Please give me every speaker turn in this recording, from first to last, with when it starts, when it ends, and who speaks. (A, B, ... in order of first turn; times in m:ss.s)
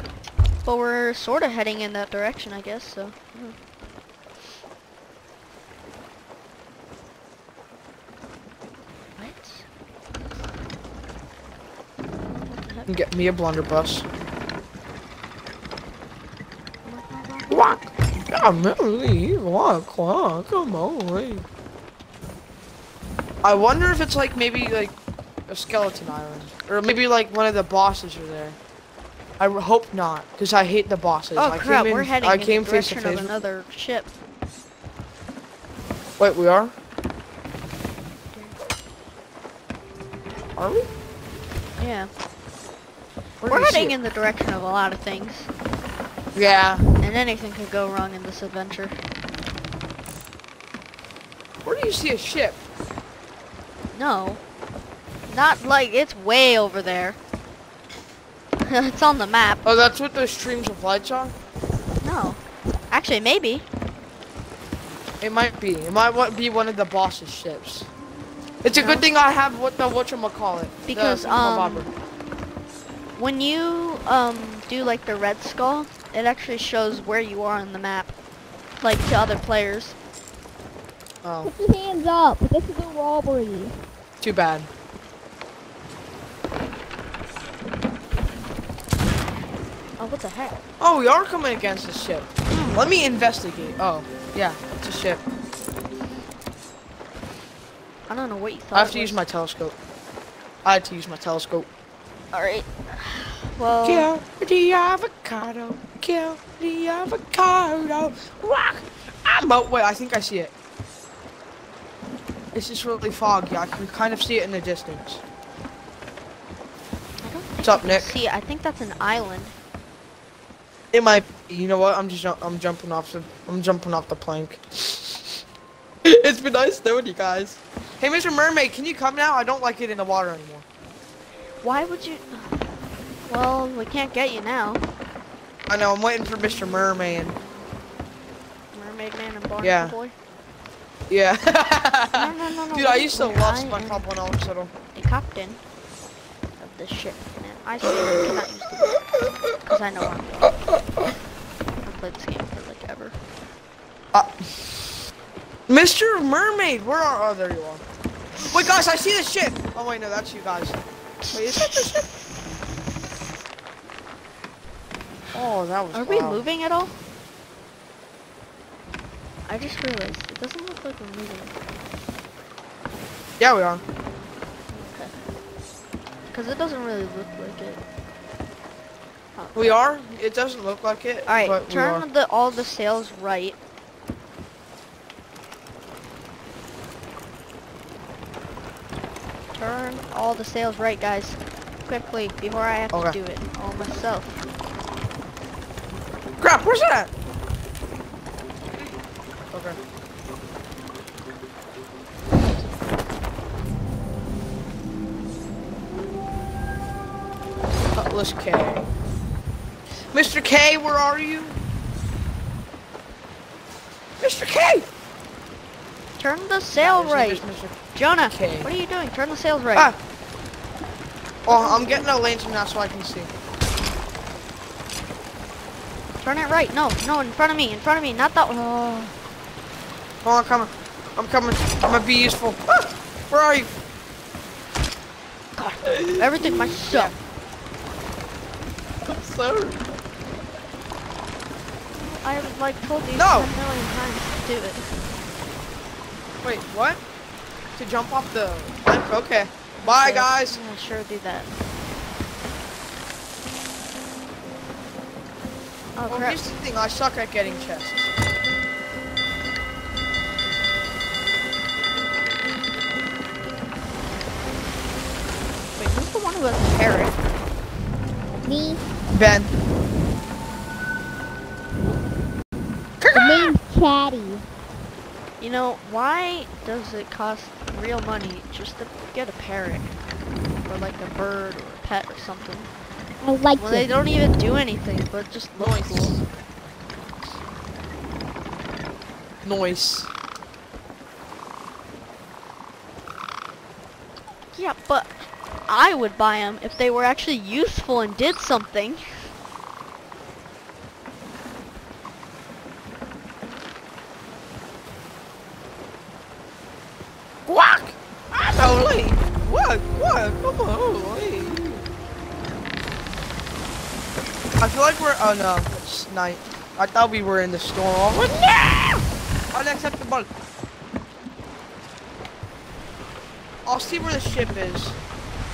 0:00.6-0:03.6 A
0:09.2-0:09.6 A
0:12.3-0:12.9 A
0:12.9-0:14.0 B
0:16.8-0:17.6 A
0:17.5-0:21.4 B
0:23.4-0:25.0 B
0:25.5-0:28.6 B
0:29.4-0:33.3 B
0:31.4-0:34.1 A
0:36.2-0:36.7 B
0:40.6-0:40.9 B
0:41.8-0:42.1 A
0:43.4-0:44.0 B
0:43.5-0:45.5 A
0:46.4-0:46.8 B
0:47.0-0:49.0 A
0:51.6-0:52.6 B
0:53.9-0:54.4 A
0:55.3-0:57.2 A
0:58.6-0:59.6 A
0:59.6-1:01.4 B
1:02.0-1:03.6 A
1:05.2-1:07.9 B
1:08.6-1:11.9 B
1:08.8-1:09.1 A
1:10.9-1:11.9 A
1:13.2-1:18.1 A
1:18.8-1:20.0 A
1:21.2-1:21.5 B
1:21.4-1:23.7 C
1:24.2-1:24.7 B
1:30.0-1:30.6 A
1:30.8-1:35.2 B
1:32.5-1:32.8 A
1:38.1-1:39.2 A
1:38.7-1:39.8 B
1:40.6-1:41.7 B
1:42.3-1:44.1 A
1:43.8-1:50.5 B
1:52.5-1:55.2 B
1:57.2-1:59.5 A
1:57.6-1:58.1 B
2:00.9-2:05.4 B
2:06.0-2:10.6 B
2:11.6-2:12.6 A
2:13.3-2:14.8 A
2:15.7-2:17.4 B
2:18.7-2:20.1 A
2:19.6-2:20.0 B
2:21.1-2:24.7 B
2:22.1-2:24.0 A
2:25.0-2:25.6 A
2:26.6-2:30.6 A
2:27.9-2:29.8 B
2:30.4-2:31.2 B
2:31.8-2:33.2 A
2:34.1-2:35.0 B
2:35.7-2:37.8 B
2:38.4-2:42.1 B
2:41.2-2:43.0 A
2:45.3-2:46.4 B
2:45.9-2:46.9 A
2:49.5-2:51.6 A
2:53.4-2:53.8 B
2:54.7-2:55.1 A
2:56.3-2:57.8 A
2:59.4-2:59.8 A
2:59.6-3:02.0 B
3:01.3-3:03.6 A
3:09.5-3:14.4 A
3:12.9-3:13.2 B
3:16.4-3:17.1 B
3:19.5-3:19.8 B
3:28.0-3:28.9 B
3:30.1-3:31.6 B
3:34.2-3:34.9 B
3:36.2-3:37.4 A
3:36.8-3:38.7 B
3:37.9-3:39.9 A
3:41.5-3:43.3 B
3:41.5-3:42.1 A
3:46.2-3:49.2 A
3:50.2-3:53.7 B
3:55.6-3:57.1 A
3:55.8-3:57.2 B
3:59.0-3:59.8 B
4:01.9-4:04.8 A
4:03.2-4:03.5 B
4:06.4-4:07.0 B
4:07.8-4:10.6 B
4:09.8-4:11.5 A
4:16.0-4:16.4 A
4:16.1-4:18.1 B
4:25.8-4:27.2 A
4:28.4-4:28.8 C
4:29.1-4:29.5 B
4:33.0-4:33.5 B
4:33.1-4:34.4 C
4:35.4-4:39.9 A
4:40.7-4:42.7 A
4:43.2-4:43.9 C
4:43.6-4:46.2 A
4:45.6-4:46.2 B
4:49.4-4:50.1 B
4:54.5-4:55.1 A
4:55.7-4:59.0 A
5:07.5-5:11.9 B
5:14.6-5:20.3 B
5:23.6-5:25.0 B